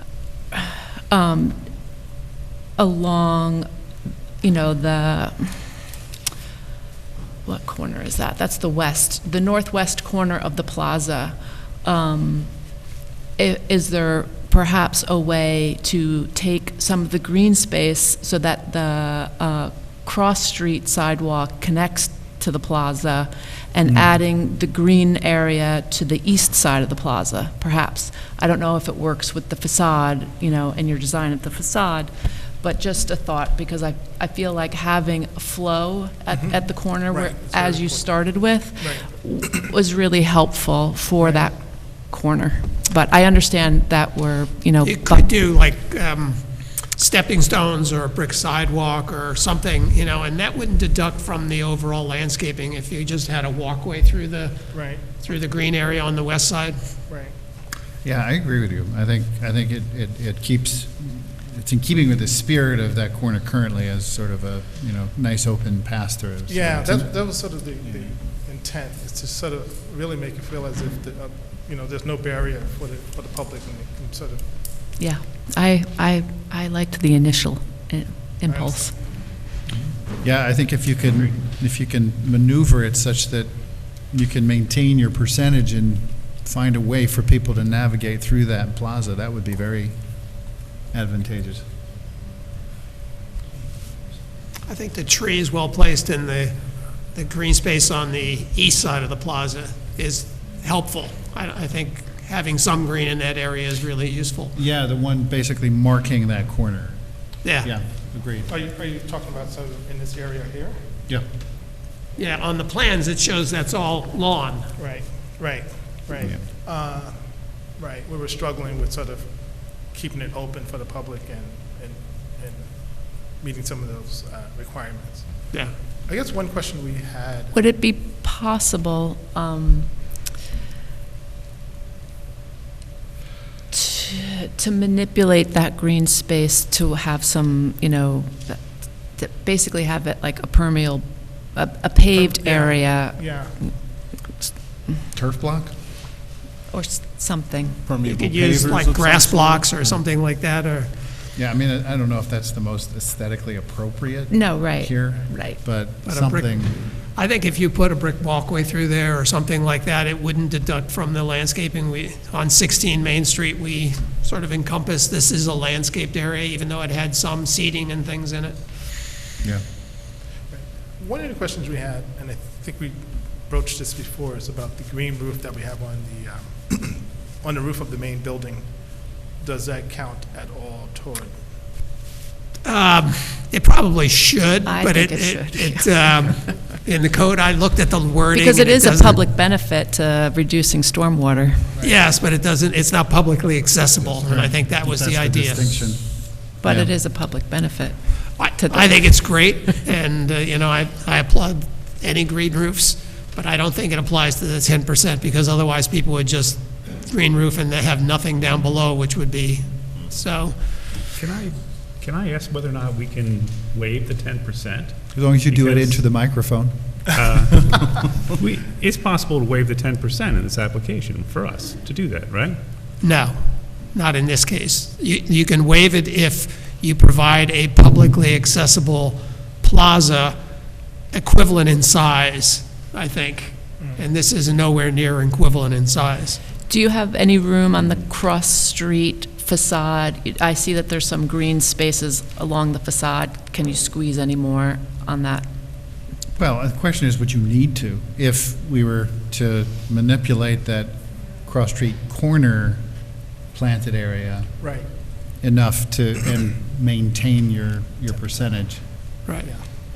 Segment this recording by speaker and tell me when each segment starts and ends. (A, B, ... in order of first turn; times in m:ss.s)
0:00.5-0:01.6 A
0:02.8-0:03.7 A
0:04.4-0:05.7 A
0:07.4-0:12.5 A
0:13.4-0:45.2 A
0:37.1-0:38.0 B
0:38.8-0:39.1 B
0:41.2-0:41.5 B
0:44.8-0:56.8 C
0:54.7-0:55.0 B
0:57.1-0:57.4 B
0:58.0-1:07.1 D
1:06.5-1:14.5 B
1:15.0-1:18.9 A
1:18.5-1:18.9 B
1:20.2-1:31.6 D
1:34.7-1:36.6 C
1:37.1-1:44.5 C
1:44.6-1:48.5 D
1:47.4-1:47.7 C
1:48.5-1:50.8 B
1:52.2-1:54.7 C
1:54.8-1:57.2 B
1:57.7-2:05.5 B
2:06.1-2:07.6 B
2:07.5-2:09.9 A
2:13.7-2:18.6 A
2:19.1-2:23.7 A
2:22.1-2:23.6 B
2:25.1-2:25.7 D
2:26.7-2:27.8 A
2:28.0-2:30.9 C
2:28.4-2:29.1 D
2:31.4-2:36.8 D
2:34.3-2:35.6 A
2:36.0-2:48.6 C
2:50.5-3:01.4 B
3:02.6-3:09.2 C
3:04.7-3:06.5 A
3:08.3-3:11.7 A
3:11.8-3:15.8 C
3:14.2-3:16.9 D
3:16.6-3:19.4 A
3:18.4-3:31.0 C
3:31.2-3:36.0 E
3:35.1-3:37.2 D
3:37.2-3:42.6 E
3:43.0-3:50.4 C
3:51.1-3:56.4 C
3:56.7-4:05.5 A
4:06.4-4:13.0 D
4:13.5-4:14.6 D
4:14.6-4:14.9 B
4:15.3-4:19.0 D